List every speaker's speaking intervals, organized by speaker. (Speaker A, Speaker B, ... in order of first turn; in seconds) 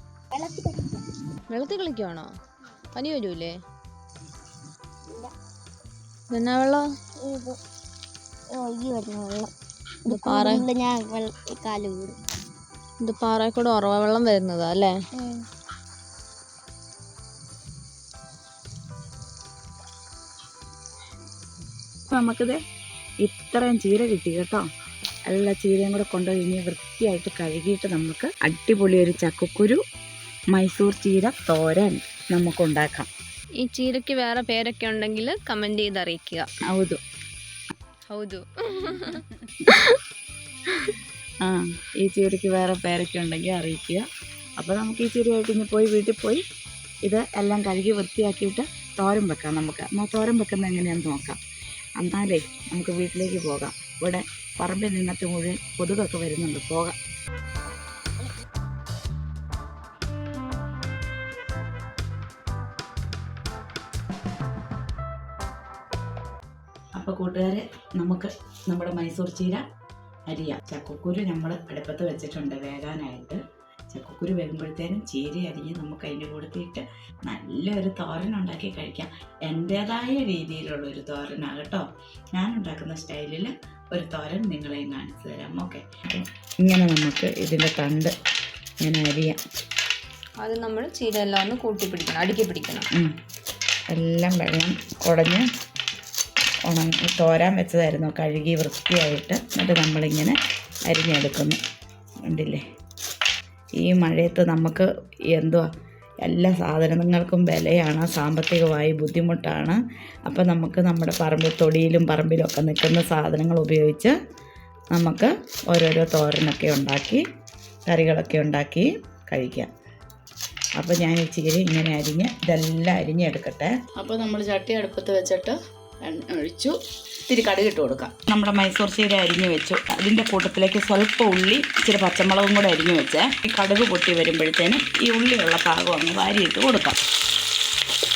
Speaker A: 0.3-1.1, 5.1-5.3, 7.2-7.6, 8.5-9.5, 10.0-12.2, 15.1-15.4
Speaker B: 1.5-2.3, 2.9-3.6, 6.3-6.9, 10.1-10.7, 13.0-15.0, 33.6-36.5, 38.1-40.0, 90.4-92.9
Speaker C: 22.1-22.6, 23.2-24.7, 25.3-29.8, 30.5-33.1, 36.7-37.0, 41.4-44.1, 44.6-46.4, 47.0-51.4, 52.0-57.0, 67.0-69.6, 70.3-88.1, 88.8-89.4, 93.9-95.5, 96.7-101.6, 102.2-102.6, 103.8-105.7, 106.2-114.2, 114.9-117.2, 117.9-119.7, 120.8-137.0